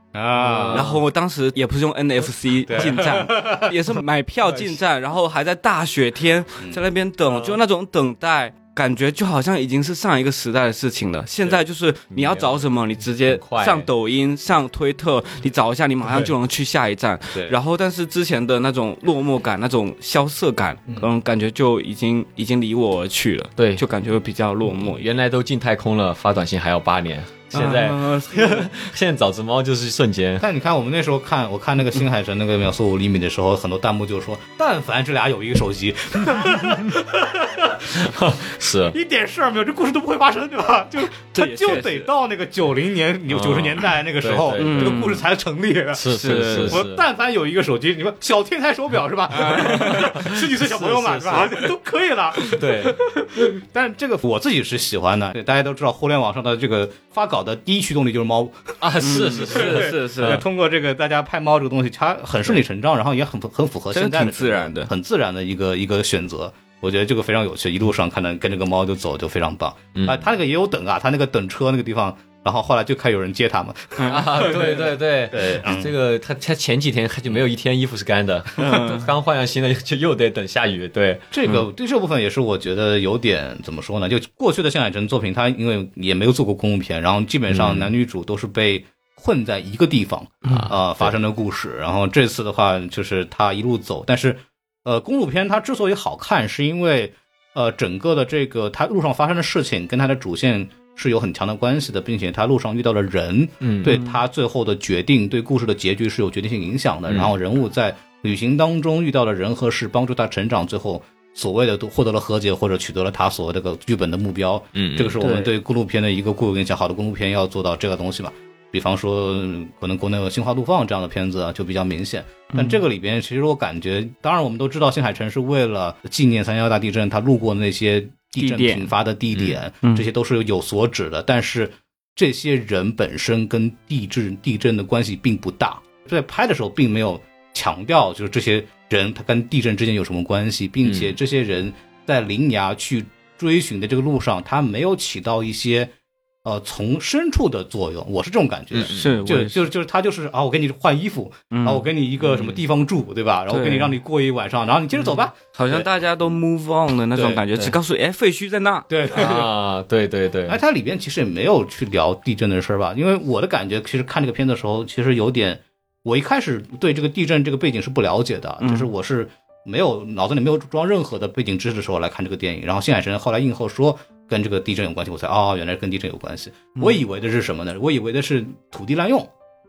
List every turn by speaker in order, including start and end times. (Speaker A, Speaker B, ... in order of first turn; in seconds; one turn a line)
Speaker A: 0.1-0.9
Speaker B: 0.4-1.0
Speaker C: 0.7-25.1
Speaker A: 2.7-3.7
Speaker B: 12.1-12.7
Speaker B: 13.2-13.9
Speaker B: 23.6-23.9
Speaker B: 24.6-30.4
Speaker C: 27.5-28.7
Speaker A: 30.4-58.8
Speaker B: 38.0-39.0
Speaker C: 41.3-42.1
Speaker B: 43.3-45.1
Speaker C: 44.6-45.2
Speaker B: 45.9-47.0
Speaker C: 46.1-46.8
Speaker C: 49.3-50.2
Speaker B: 49.8-51.7
Speaker B: 52.5-53.0
Speaker B: 58.8-60.4
Speaker C: 59.0-60.4
Speaker A: 59.4-75.9
Speaker C: 63.9-64.9
Speaker B: 70.0-70.2
Speaker B: 74.1-81.6
Speaker C: 78.6-79.1
Speaker A: 81.3-145.9
Speaker B: 87.5-87.9
Speaker B: 90.5-91.1
Speaker B: 103.6-104.0
Speaker B: 107.1-107.3
Speaker B: 114.7-115.2
Speaker C: 115.2-115.5
Speaker C: 122.5-122.8
Speaker C: 128.4-128.9
Speaker B: 140.8-141.1
Speaker A: 146.4-155.9
Speaker B: 148.7-149.2
Speaker C: 148.9-149.7
Speaker C: 151.5-151.9
Speaker C: 153.5-154.0
Speaker C: 155.6-158.9
Speaker A: 157.2-157.4
Speaker A: 158.9-159.5
Speaker B: 159.1-160.6
Speaker A: 160.5-179.3
Speaker C: 168.6-168.9